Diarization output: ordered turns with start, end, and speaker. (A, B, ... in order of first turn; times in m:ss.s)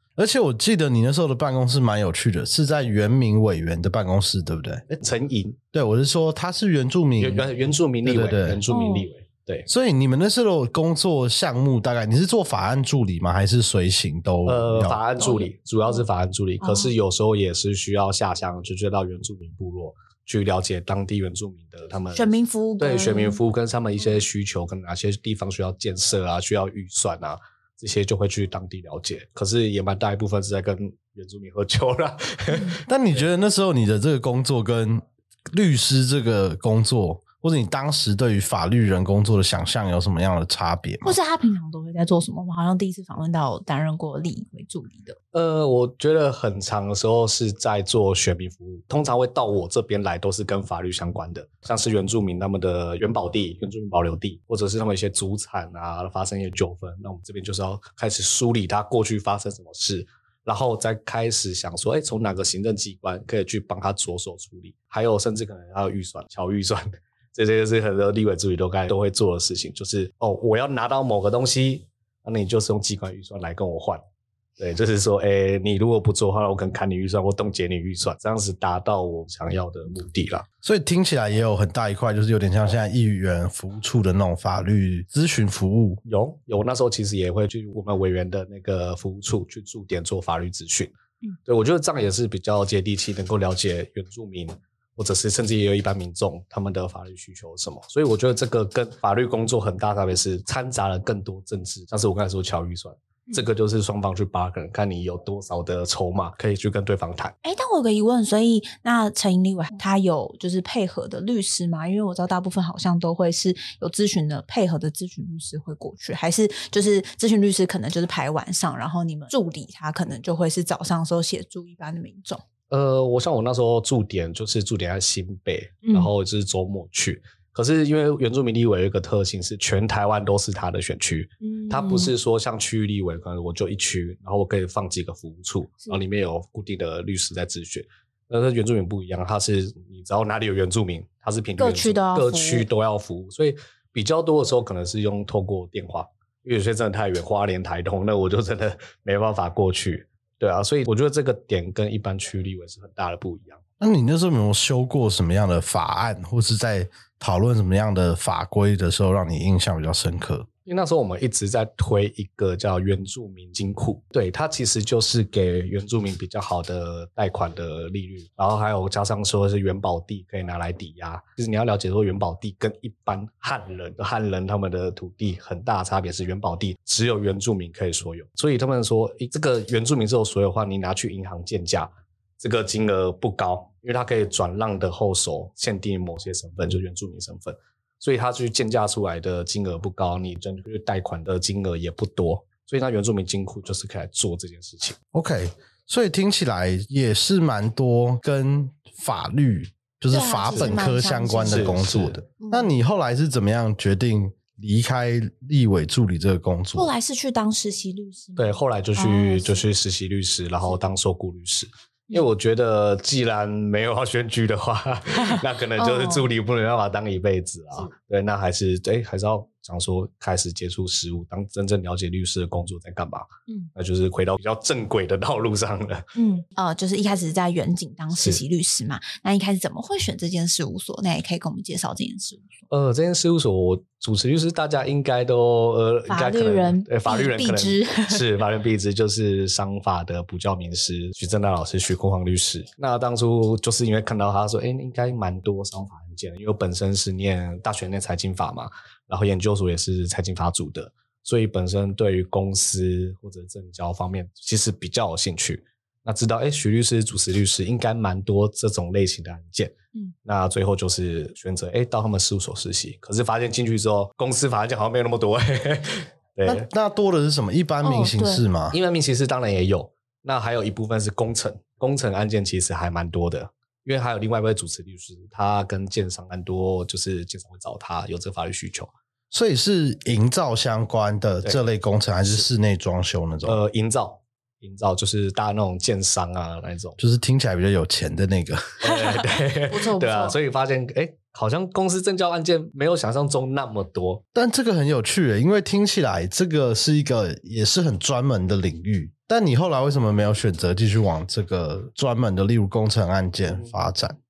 0:00.2-0:05.0 A
0:05.0-0:05.6 B
0:05.7-0:08.6 A
0:07.2-0:09.7 B
0:08.7-0:09.1 C
0:09.7-0:15.0 A
0:14.4-0:32.9 B
0:15.2-0:16.0 C
0:16.6-0:16.9 C
0:22.1-0:23.4 C
0:32.5-0:32.8 C
0:32.9-0:41.2 A
0:41.0-0:45.2 C
0:45.3-1:14.0 B
1:14.6-1:20.5 B
1:20.6-1:26.0 A
1:26.1-1:30.9 B
1:31.5-1:47.4 B
1:47.4-2:02.4 C
2:02.7-2:33.6 B
2:05.8-2:06.1 C
2:11.4-2:12.1 C
2:21.6-2:22.7 C
2:33.8-2:40.5 A
2:40.7-3:15.0 B
3:15.1-3:26.9 A
3:20.1-3:21.8 C
3:21.4-3:22.2 B
3:22.4-3:22.7 C
3:26.8-3:29.6 C
3:28.4-3:46.0 B
3:35.8-3:36.3 C
3:46.2-3:52.5 C
3:48.1-3:48.4 B
3:52.7-4:26.6 B
3:56.1-3:58.2 C
4:26.4-4:28.8 A
4:27.8-4:28.4 C
4:28.7-4:38.9 B
4:39.3-4:43.6 A
4:43.5-4:47.0 B
4:47.0-4:48.8 A
4:48.8-4:54.2 B
4:48.9-4:50.4 C
4:54.3-5:04.2 A
5:03.5-5:03.7 B